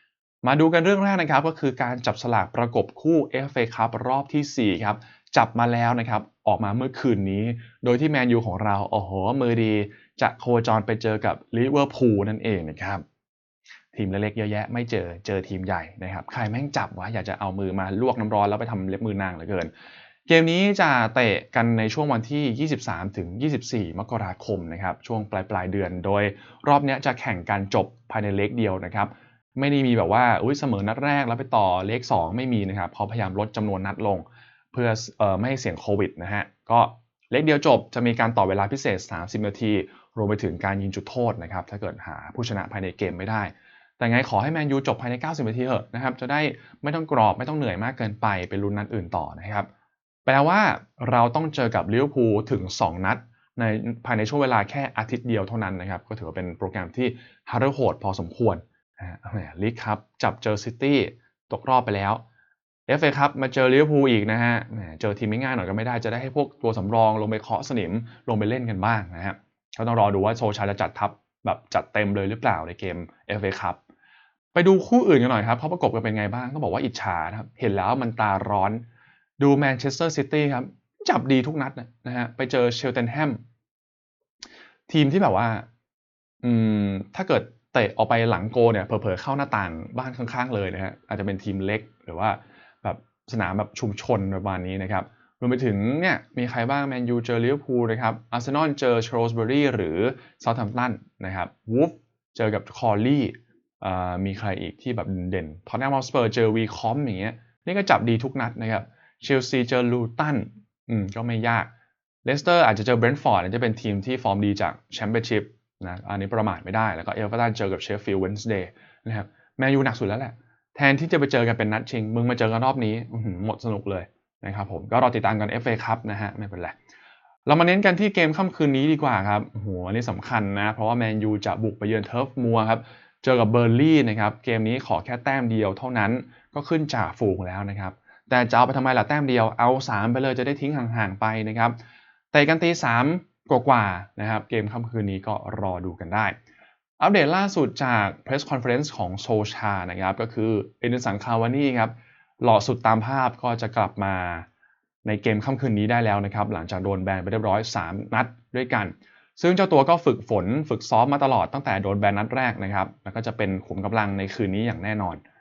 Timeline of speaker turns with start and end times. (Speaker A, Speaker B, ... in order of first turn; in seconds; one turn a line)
Speaker A: 0.4-13.0
Speaker A: 13.9-19.7
Speaker A: 20.3-49.7
Speaker A: 50.3-62.2
Speaker A: 62.9-73.8
Speaker A: 74.5-78.8
Speaker A: 79.4-83.4
Speaker A: 84.9-85.7
Speaker A: 86.4-111.7
Speaker A: 112.2-126.8
Speaker A: 127.5-141.8
Speaker A: 142.3-146.4
Speaker A: 147.0-154.5
Speaker A: 155.0-165.2